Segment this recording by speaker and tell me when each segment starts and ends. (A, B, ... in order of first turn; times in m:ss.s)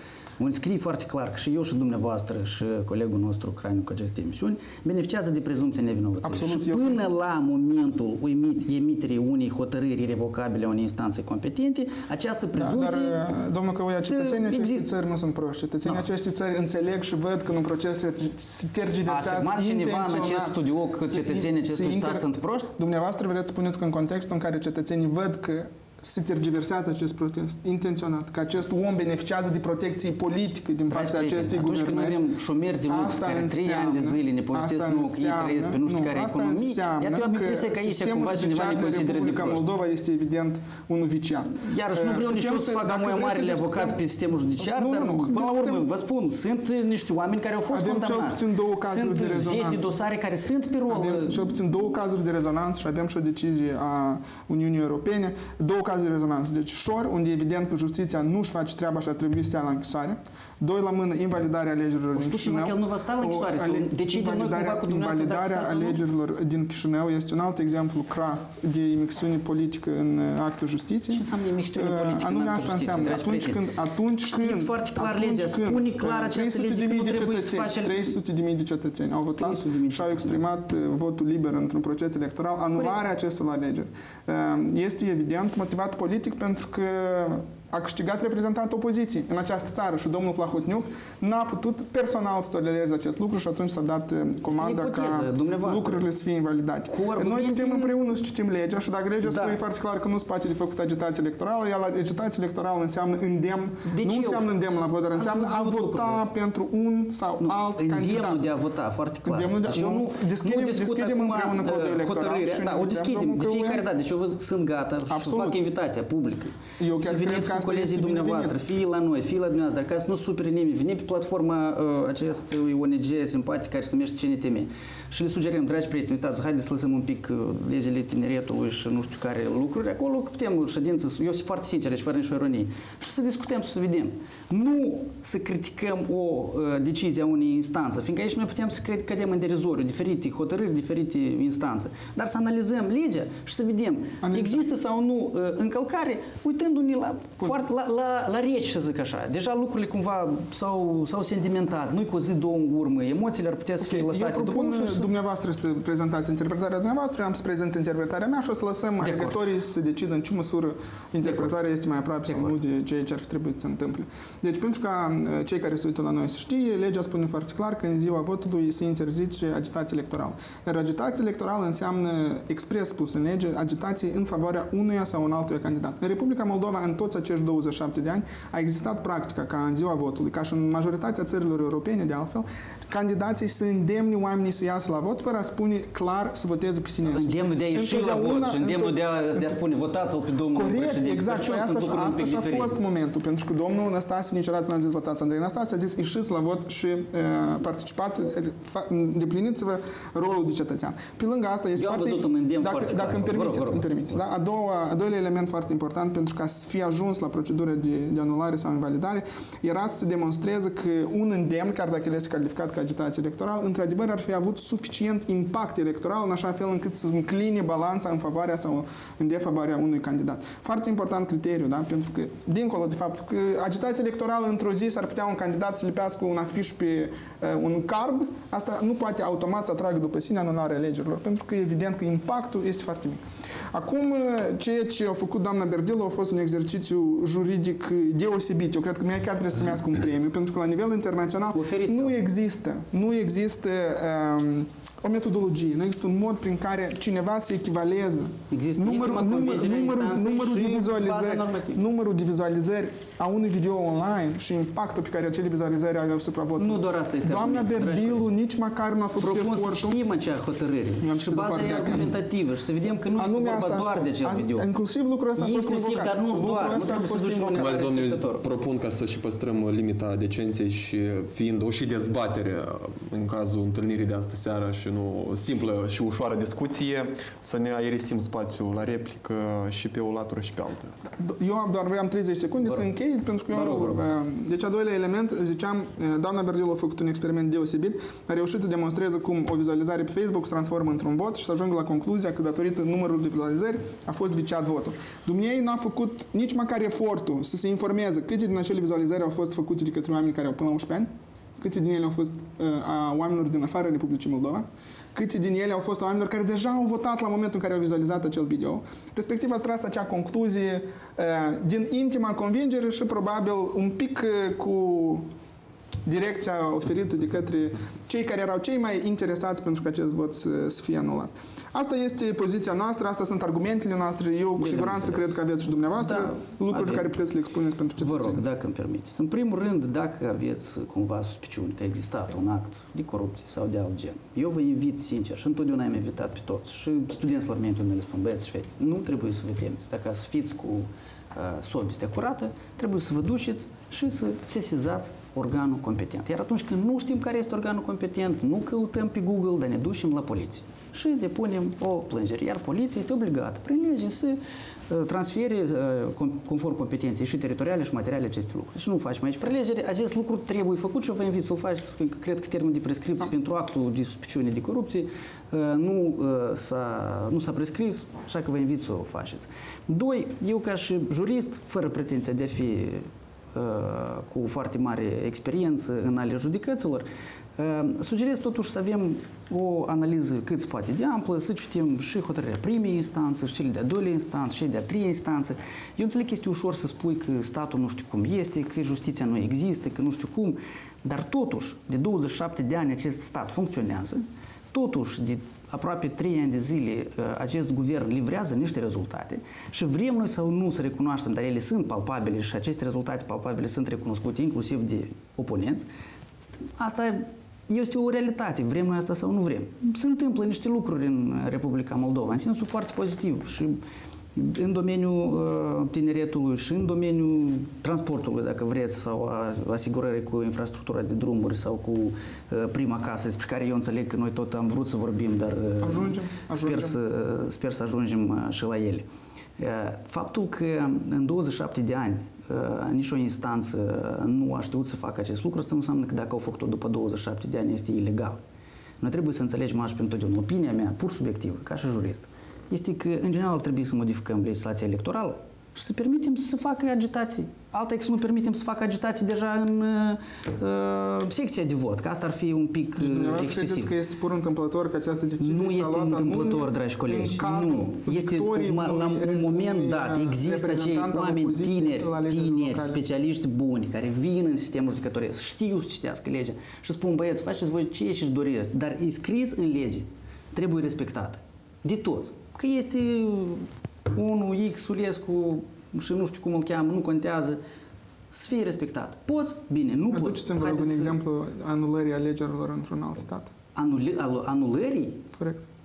0:00.4-0:13.2 A
0:06.2-0:07.0 B
0:12.6-0:32.2 B
0:14.0-0:14.9 A
0:19.1-0:22.7 A
0:30.9-0:39.6 A
0:32.9-0:44.0 B
0:41.6-0:51.6 A
0:44.6-0:45.8 B
0:47.7-0:49.9 B
0:50.9-1:11.2 B
1:02.1-1:06.0 A
1:11.1-1:13.6 A
1:11.8-1:48.4 B
1:14.2-1:18.1 A
1:19.4-1:20.4 A
1:34.5-1:36.0 A
1:36.9-1:38.0 A
1:39.2-1:39.6 A
1:43.8-1:44.5 A
1:45.2-1:46.2 A
1:47.4-2:35.1 A
1:49.2-1:53.8 B
1:55.1-1:55.6 B
1:56.8-1:58.6 B
2:24.2-2:24.6 B
2:33.8-3:09.6 B
2:39.0-2:39.4 A
3:07.0-3:12.7 A
3:10.5-4:20.0 B
3:21.8-3:24.0 A
4:01.5-4:02.2 A
4:08.5-4:11.8 A
4:16.6-4:18.3 A
4:19.2-4:24.7 A
4:21.0-4:22.1 B
4:23.2-4:27.9 B
4:25.4-4:28.4 A
4:27.6-4:40.9 C
4:41.1-5:15.2 B
4:43.5-4:44.0 A
5:16.0-5:28.4 B
5:24.6-5:25.4 A
5:25.9-5:27.2 A
5:28.0-6:45.8 A
6:46.8-6:53.8 A
6:54.3-7:09.0 A
7:05.8-7:07.0 B
7:09.6-7:18.4 A
7:19.0-7:33.9 A
7:33.0-7:43.0 B
7:35.4-7:57.6 A
7:58.3-8:01.2 A
8:00.1-8:03.5 B
8:03.7-8:05.2 A
8:05.4-8:05.6 B